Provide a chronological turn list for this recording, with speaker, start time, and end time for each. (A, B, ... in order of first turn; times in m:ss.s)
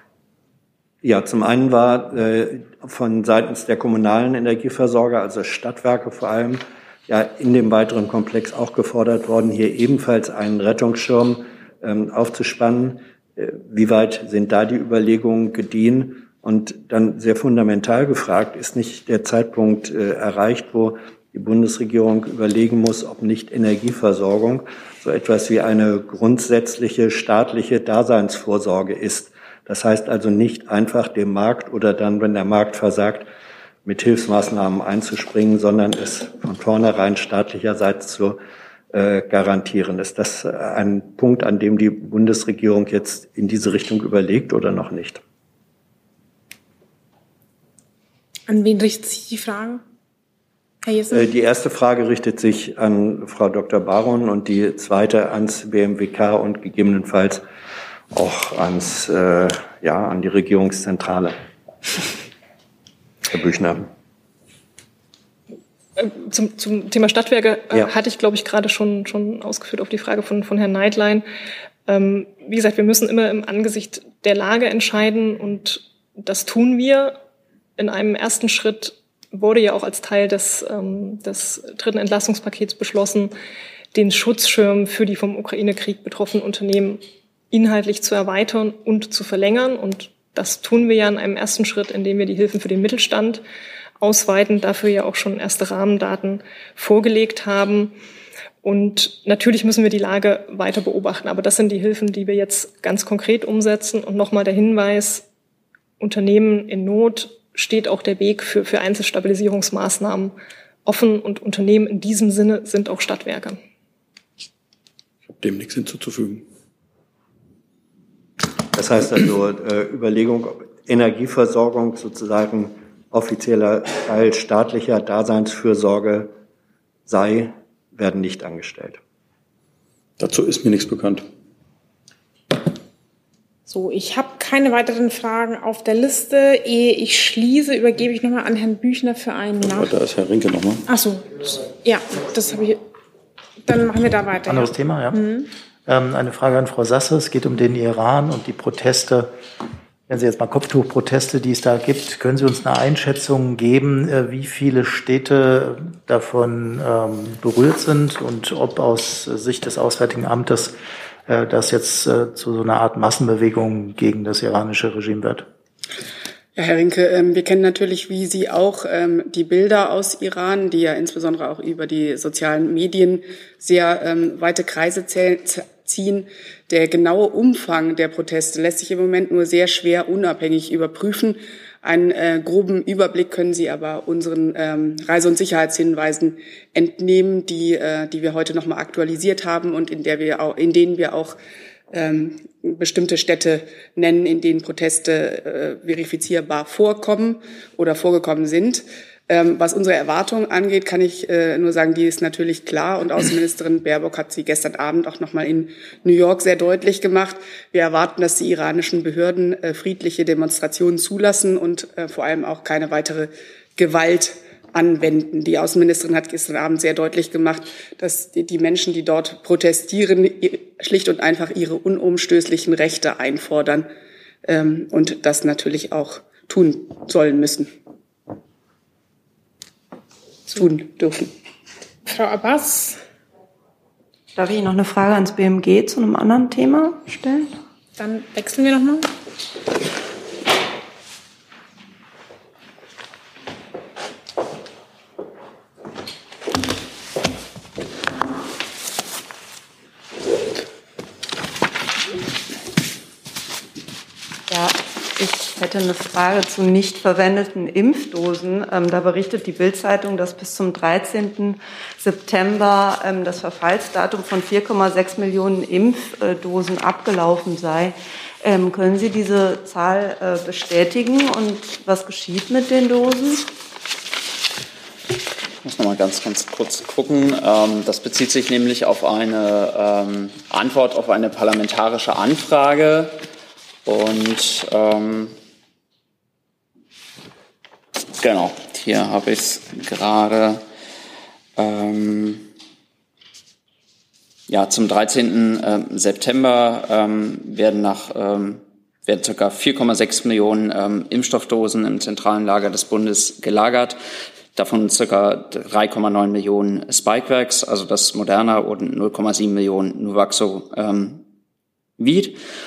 0:01.0-0:33.3 A
0:33.8-0:38.4 A
0:38.9-0:45.2 A
0:48.5-0:49.8 B
0:50.8-0:51.2 B
0:51.1-0:57.4 A
0:58.1-1:01.3 A
1:03.3-1:03.8 A
1:06.0-1:11.2 C
1:11.9-1:17.2 C
1:17.8-1:23.3 C
1:23.9-1:33.4 C
1:34.0-1:37.9 C
1:38.6-1:45.2 C
1:46.0-1:50.3 C
1:50.8-1:53.6 C
1:55.3-1:56.4 D
1:58.7-2:06.3 A
2:07.1-2:09.0 A
2:10.2-2:11.2 D
2:13.7-2:19.9 B
2:19.6-2:20.8 D
2:20.9-2:22.8 B
2:23.6-2:25.5 B
2:24.5-2:25.2 E
2:25.9-2:29.3 E
2:30.1-2:40.8 E
2:41.3-2:45.4 E
2:46.6-3:11.4 F
3:11.9-3:43.9 F
3:44.4-3:47.7 F
3:50.5-3:51.3 F
3:52.0-3:53.0 B
3:54.4-3:57.5 G
3:58.0-3:59.1 B
4:14.5-4:33.4 G
4:35.6-4:43.2 H
4:43.8-4:45.3 H
4:48.2-4:50.6 H
4:51.6-4:52.4 H
4:54.5-5:04.0 H
5:04.5-5:11.2 H
5:12.0-5:12.4 H